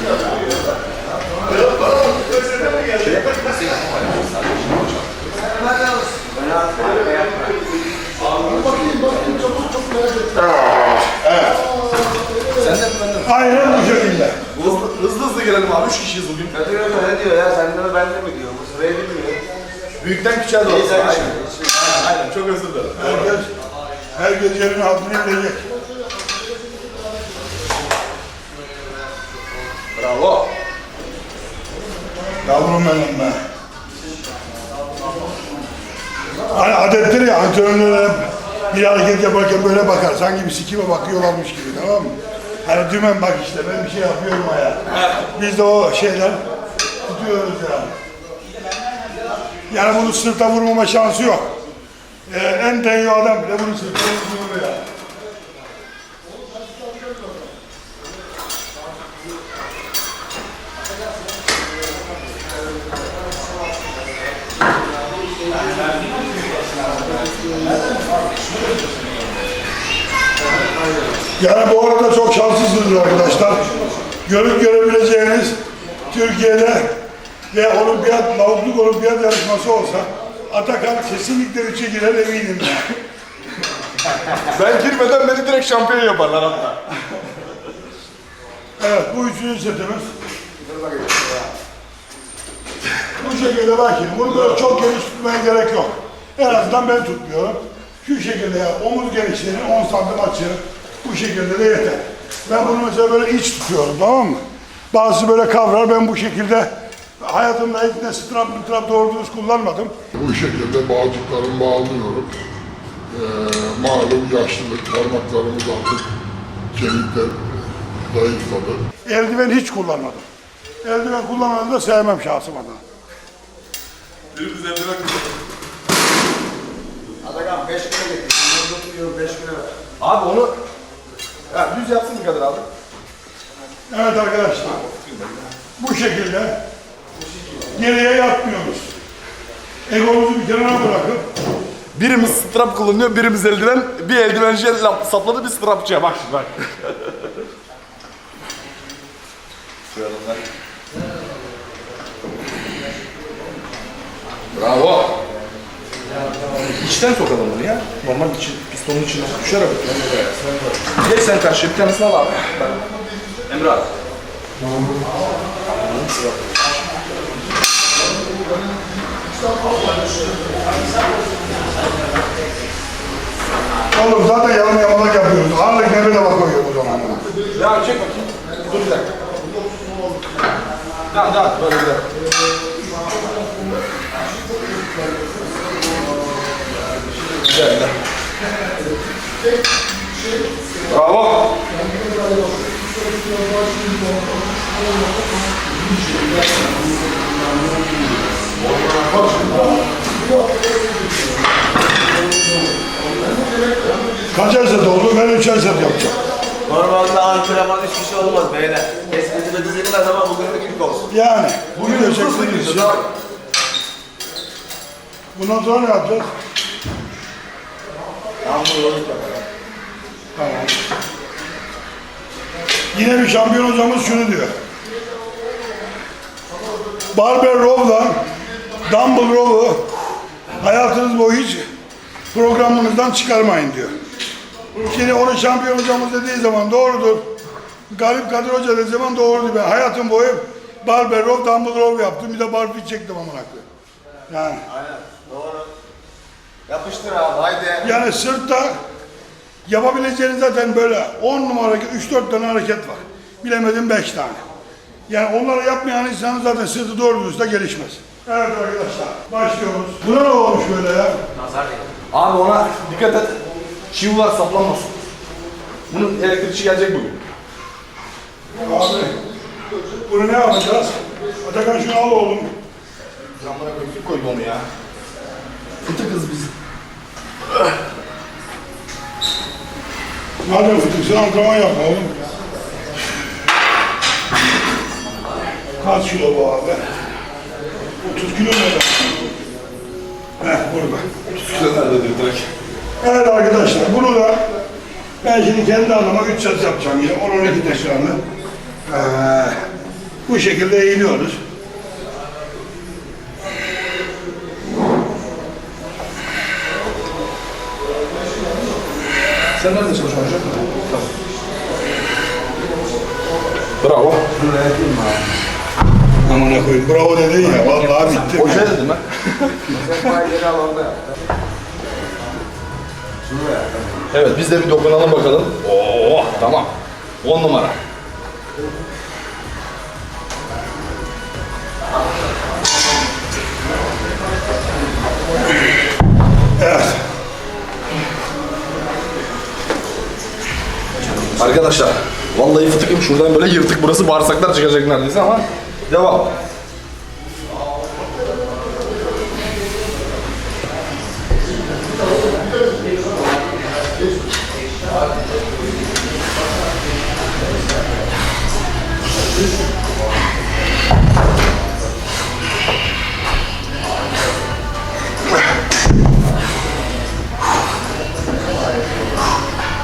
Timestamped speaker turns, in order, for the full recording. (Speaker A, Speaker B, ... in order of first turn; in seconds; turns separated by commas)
Speaker A: 1.8-5.2, Speaker B: 2.4-3.0, Speaker B: 5.3-7.6, Speaker A: 10.4-11.1, Speaker C: 11.1-11.6, Speaker A: 12.5-13.8, Speaker C: 13.2-14.4, Speaker A: 14.5-16.5, Speaker B: 16.5-19.5, Speaker A: 20.0-23.3, Speaker B: 20.6-22.1, Speaker C: 22.9-23.5, Speaker C: 24.1-25.7, Speaker A: 29.9-30.5, Speaker C: 32.4-33.4, Speaker C: 36.5-46.4, Speaker C: 47.0-47.9, Speaker C: 49.7-51.5, Speaker C: 52.3-54.9, Speaker B: 65.8-66.5, Speaker A: 65.9-69.2, Speaker B: 70.4-71.3, Speaker C: 71.4-73.6, Speaker C: 74.2-75.6, Speaker C: 76.1-76.9, Speaker C: 77.5-82.9, Speaker A: 84.4-86.8, Speaker C: 88.8-90.1, Speaker B: 90.6-91.5, Speaker C: 93.2-104.4, Speaker C: 104.9-109.9, Speaker D: 110.2-112.3, Speaker D: 113.1-116.0, Speaker D: 116.7-118.8, Speaker C: 119.0-120.2, Speaker C: 120.8-122.8, Speaker A: 124.3-125.3, Speaker B: 127.2-129.7, Speaker A: 130.0-130.5, Speaker A: 131.5-132.6, Speaker C: 133.9-134.8, Speaker A: 134.7-135.5, Speaker C: 135.8-136.6, Speaker C: 137.7-138.9, Speaker C: 139.9-141.2, Speaker A: 141.9-147.1, Speaker A: 149.9-150.4, Speaker A: 154.5-155.1, Speaker A: 156.7-160.0, Speaker B: 159.8-160.9, Speaker A: 161.0-162.8, Speaker B: 163.5-163.8, Speaker A: 165.7-166.4, Speaker C: 173.9-177.2, Speaker A: 177.5-179.2, Speaker A: 181.1-182.1, Speaker A: 187.4-187.9, Speaker A: 190.9-191.6, Speaker B: 199.0-199.7, Speaker C: 204.3-206.1, Speaker B: 206.6-211.1, Speaker C: 211.1-213.0, Speaker A: 211.7-213.1, Speaker C: 215.3-216.3, Speaker B: 218.4-219.4, Speaker C: 220.3-220.7, Speaker C: 222.9-224.5, Speaker C: 227.1-228.2, Speaker C: 228.8-229.9, Speaker C: 230.6-231.6, Speaker C: 232.3-234.0, Speaker C: 234.8-237.3, Speaker C: 237.9-243.6, Speaker C: 244.3-244.6, Speaker B: 244.7-245.7, Speaker B: 246.7-248.0, Speaker C: 247.8-248.7, Speaker C: 249.7-254.4, Speaker C: 255.1-261.2, Speaker B: 261.3-262.0, Speaker A: 262.1-263.4, Speaker A: 263.9-265.0, Speaker A: 265.9-267.2, Speaker C: 268.6-269.1, Speaker C: 270.1-272.5, Speaker A: 273.4-274.6, Speaker A: 275.8-276.5, Speaker C: 280.4-282.1, Speaker C: 285.8-286.8, Speaker C: 288.0-289.3, Speaker C: 290.4-291.1, Speaker A: 291.3-292.5, Speaker C: 293.0-294.4, Speaker C: 295.2-298.2, Speaker C: 298.9-299.6, Speaker C: 300.2-301.4, Speaker A: 309.6-311.0, Speaker A: 313.8-314.2, Speaker B: 314.3-315.3, Speaker C: 316.2-318.7, Speaker B: 317.5-318.6, Speaker A: 318.3-320.1, Speaker B: 319.7-321.1, Speaker B: 323.2-324.1, Speaker A: 324.1-326.7, Speaker A: 327.2-327.8, Speaker C: 336.6-337.0, Speaker A: 341.4-346.3